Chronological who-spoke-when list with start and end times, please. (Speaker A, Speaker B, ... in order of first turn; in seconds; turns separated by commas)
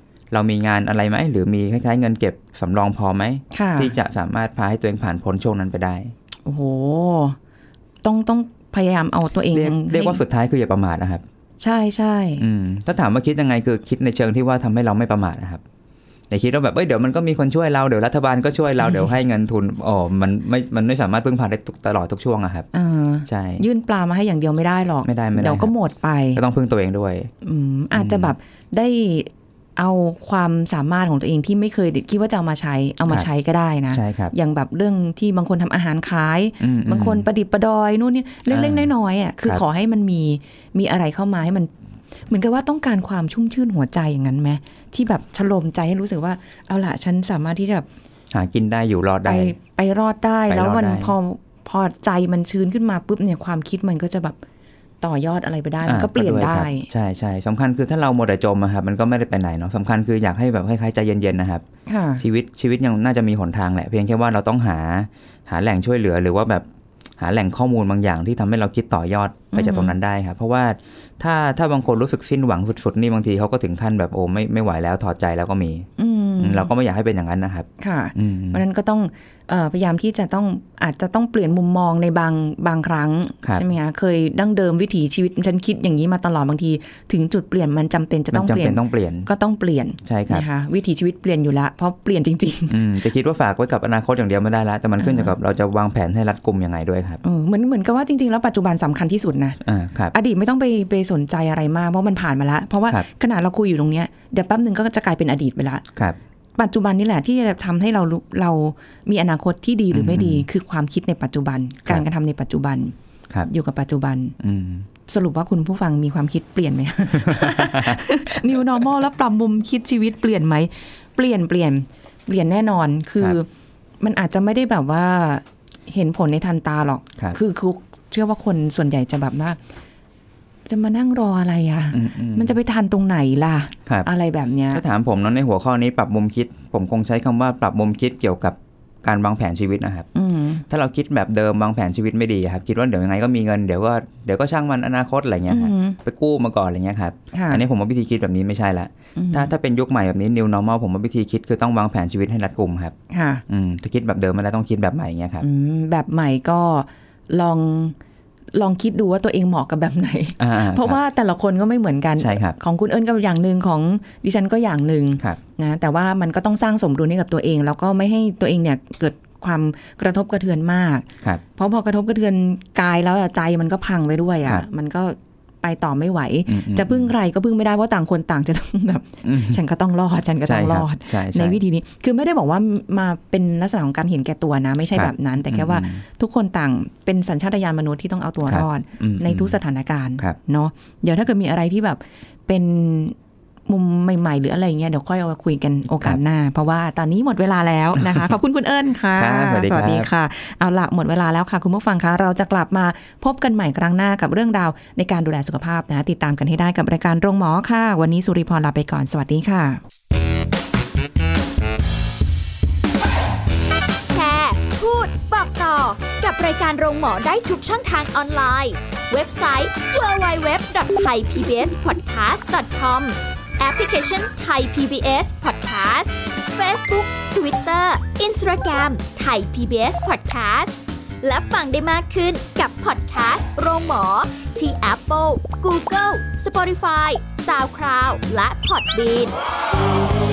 Speaker A: 0.3-6.2, Speaker B: 3.5-3.9, Speaker B: 6.5-7.4, Speaker B: 8.0-10.2, Speaker A: 9.5-11.2, Speaker B: 11.6-12.5, Speaker A: 12.4-15.6, Speaker A: 16.3-22.7, Speaker B: 22.7-26.4, Speaker A: 23.3-23.6, Speaker A: 25.0-25.7, Speaker A: 26.4-27.3, Speaker B: 27.4-41.7, Speaker A: 27.9-28.3, Speaker A: 33.9-34.3, Speaker A: 36.6-37.2, Speaker A: 38.5-38.9, Speaker B: 42.3-47.9, Speaker A: 48.3-49.5, Speaker B: 49.2-54.4, Speaker A: 50.5-51.1, Speaker B: 55.0-56.9, Speaker A: 55.9-61.6, Speaker B: 61.9-62.2, Speaker A: 62.2-66.7, Speaker A: 67.2-75.9, Speaker B: 69.5-70.0, Speaker B: 76.0-76.7, Speaker A: 76.4-78.6, Speaker B: 77.8-92.8, Speaker A: 88.3-89.3, Speaker A: 90.0-90.5, Speaker A: 92.7-97.2, Speaker B: 95.0-95.3, Speaker B: 97.2-99.6, Speaker A: 99.6-100.1, Speaker B: 100.1-105.8, Speaker B: 106.6-112.9, Speaker A: 109.9-110.5, Speaker B: 113.5-114.4, Speaker A: 114.4-114.9, Speaker B: 115.1-123.5, Speaker A: 117.1-118.6, Speaker B: 124.0-129.6, Speaker B: 130.7-134.8, Speaker A: 131.9-132.6, Speaker A: 134.7-140.1, Speaker B: 140.2-140.7, Speaker A: 140.7-153.0, Speaker B: 145.5-146.0, Speaker B: 147.3-147.6, Speaker B: 149.2-149.5, Speaker B: 153.1-153.4, Speaker A: 153.5-155.4, Speaker B: 155.4-158.0, Speaker B: 158.5-193.2, Speaker A: 160.4-161.0, Speaker A: 162.2-162.6, Speaker A: 176.5-177.1, Speaker A: 179.2-179.6, Speaker A: 180.5-181.6, Speaker A: 184.9-186.0, Speaker A: 188.5-189.6, Speaker B: 193.7-209.8, Speaker A: 199.2-200.1, Speaker C: 214.1-239.3